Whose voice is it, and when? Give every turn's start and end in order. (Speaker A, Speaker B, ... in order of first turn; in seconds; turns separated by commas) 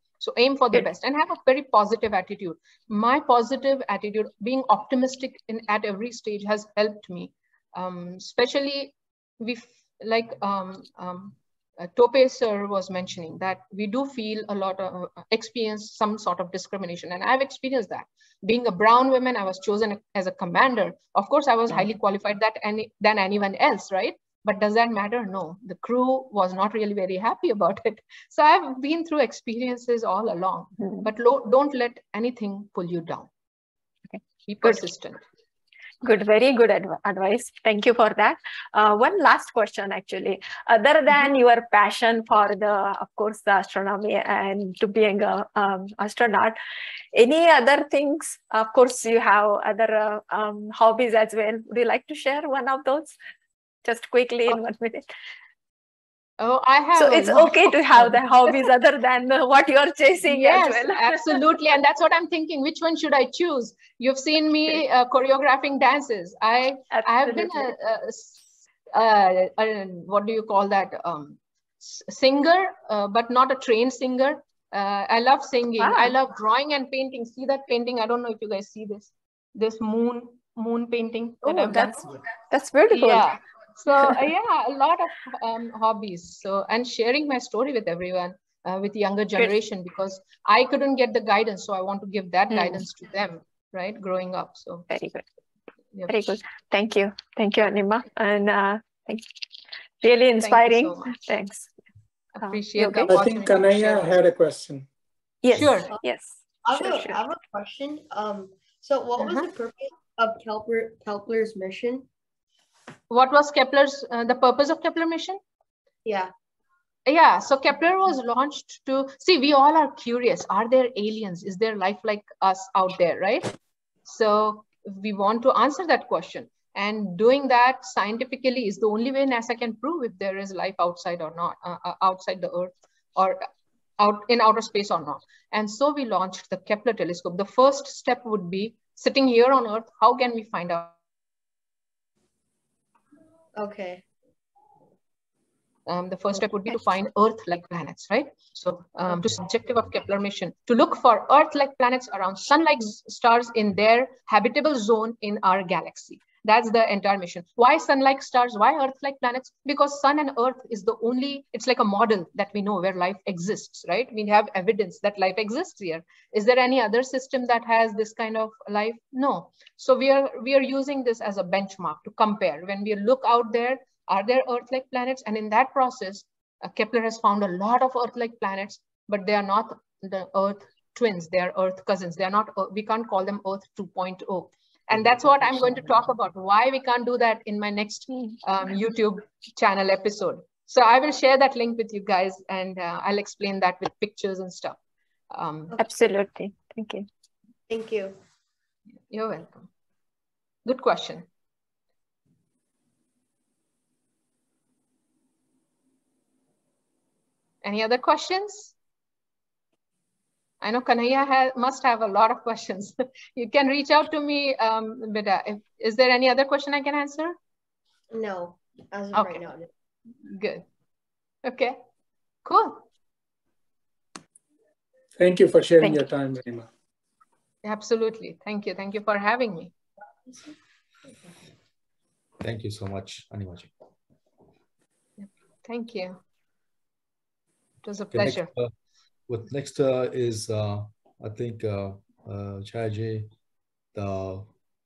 Speaker A: 0.2-33.3, Speaker B: 30.8-31.1, Speaker A: 34.5-35.2, Speaker B: 36.0-46.6, Speaker B: 47.1-53.2, Speaker B: 53.8-55.1, Speaker A: 56.4-58.7, Speaker B: 57.0-61.4, Speaker A: 60.2-82.2, Speaker B: 66.9-67.7, Speaker B: 75.8-76.1, Speaker B: 81.4-83.4, Speaker A: 82.9-94.9, Speaker B: 92.5-92.8, Speaker B: 94.9-95.2, Speaker B: 96.1-99.2, Speaker B: 100.0-101.7, Speaker A: 100.4-101.2, Speaker A: 102.4-104.2, Speaker B: 102.4-103.2, Speaker C: 103.1-104.9, Speaker B: 105.4-107.2, Speaker A: 105.5-106.0, Speaker D: 106.7-112.1, Speaker A: 109.2-109.5, Speaker A: 113.1-115.4, Speaker D: 116.0-116.3, Speaker A: 117.1-123.5, Speaker A: 124.0-133.5, Speaker A: 134.0-141.0, Speaker D: 143.6-144.0, Speaker A: 145.9-194.8, Speaker A: 195.3-195.8, Speaker B: 195.8-197.1, Speaker D: 197.7-198.2, Speaker A: 199.1-199.7, Speaker A: 200.7-201.2, Speaker A: 207.6-208.7, Speaker A: 210.6-217.3, Speaker D: 218.1-219.7, Speaker A: 219.1-219.5, Speaker A: 220.2-220.7, Speaker A: 221.4-221.8, Speaker A: 222.4-222.8, Speaker C: 225.2-226.7, Speaker A: 227.6-229.7, Speaker E: 232.4-233.7, Speaker A: 235.2-236.2, Speaker A: 237.8-238.5, Speaker E: 238.1-238.7, Speaker E: 239.3-243.3, Speaker E: 243.9-244.5